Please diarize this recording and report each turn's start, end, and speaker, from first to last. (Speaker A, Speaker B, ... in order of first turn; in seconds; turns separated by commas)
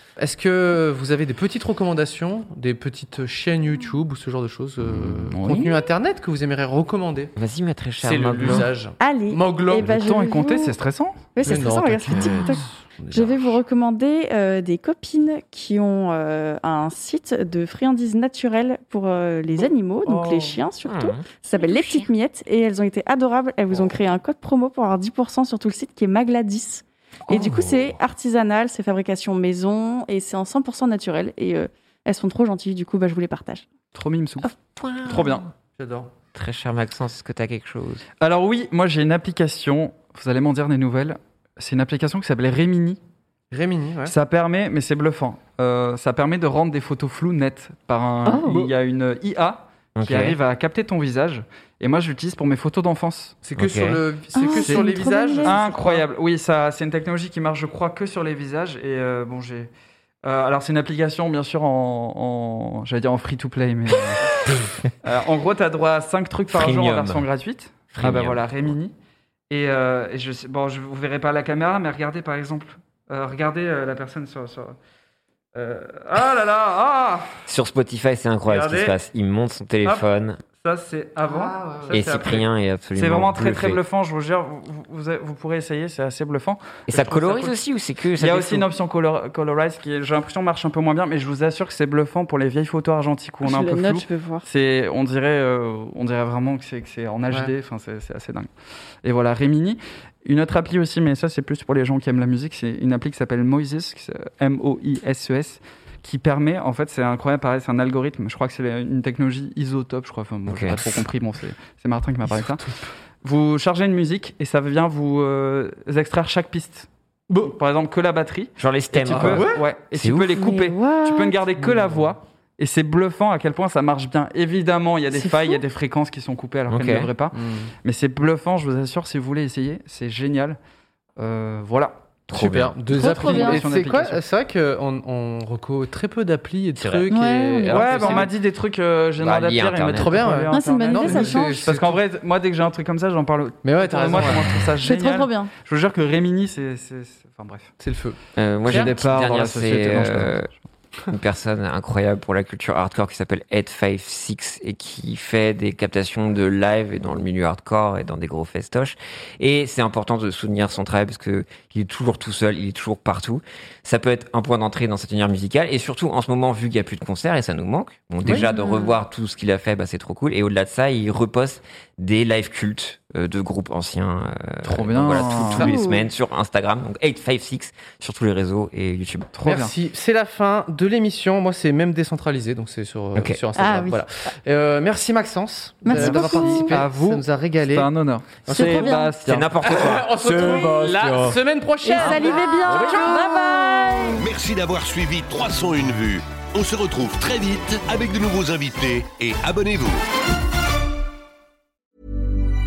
Speaker A: 0.2-7.3, Speaker B: 4.9-5.8, Speaker C: 7.3-8.7, Speaker A: 8.0-9.9, Speaker D: 9.0-10.7, Speaker B: 9.8-11.2, Speaker D: 11.3-33.6, Speaker A: 11.4-13.6, Speaker B: 20.1-20.6, Speaker C: 20.8-22.1, Speaker C: 27.3-28.0, Speaker B: 33.9-34.5, Speaker C: 34.4-35.5, Speaker B: 35.0-35.4, Speaker A: 35.8-36.1, Speaker C: 36.3-38.0, Speaker B: 38.2-43.0, Speaker A: 43.5-44.1, Speaker B: 44.0-53.4, Speaker D: 48.2-48.6, Speaker A: 48.4-48.7, Speaker C: 50.0-50.4, Speaker A: 53.4-55.7, Speaker C: 53.6-54.0, Speaker D: 54.3-56.0, Speaker B: 55.4-59.7, Speaker B: 60.2-64.3, Speaker C: 64.5-64.7, Speaker B: 65.0-68.9, Speaker C: 66.5-67.2, Speaker C: 67.9-68.7, Speaker B: 69.5-74.8, Speaker B: 75.5-77.5, Speaker C: 77.5-80.4, Speaker B: 78.5-79.0, Speaker B: 79.8-87.5, Speaker A: 81.2-82.1, Speaker C: 81.9-83.8, Speaker C: 86.9-88.7, Speaker B: 88.2-98.5, Speaker D: 93.4-94.5, Speaker B: 99.0-112.6, Speaker C: 110.5-110.8, Speaker A: 112.2-112.8, Speaker B: 113.2-116.9, Speaker A: 117.3-117.6, Speaker B: 117.4-130.6, Speaker C: 118.6-120.4, Speaker A: 119.0-119.6, Speaker D: 120.4-121.3, Speaker A: 121.6-122.1, Speaker D: 125.1-125.6, Speaker C: 126.7-127.1, Speaker A: 127.3-127.7, Speaker B: 131.2-132.0, Speaker C: 132.3-132.8, Speaker A: 132.3-138.3, Speaker B: 132.9-134.2, Speaker D: 132.9-133.6, Speaker C: 136.8-137.1, Speaker D: 137.1-137.8, Speaker C: 137.7-138.3, Speaker B: 137.7-147.7, Speaker C: 139.2-140.3, Speaker A: 139.9-142.0, Speaker D: 140.5-141.6, Speaker A: 143.6-144.8, Speaker D: 144.8-145.5, Speaker A: 147.8-148.9, Speaker C: 148.3-150.5, Speaker B: 148.6-150.5, Speaker C: 151.1-179.3, Speaker A: 168.2-168.5, Speaker D: 168.3-168.9, Speaker B: 174.6-175.7, Speaker D: 175.6-176.0, Speaker B: 179.3-179.7, Speaker A: 179.4-187.9, Speaker C: 183.1-183.4, Speaker D: 183.5-184.0, Speaker D: 185.8-186.7, Speaker B: 185.9-189.5, Speaker A: 188.4-189.0, Speaker D: 188.5-189.1, Speaker C: 189.2-191.4, Speaker A: 189.6-193.3, Speaker D: 190.4-190.8, Speaker D: 191.8-194.2, Speaker C: 192.0-193.4, Speaker E: 194.2-200.0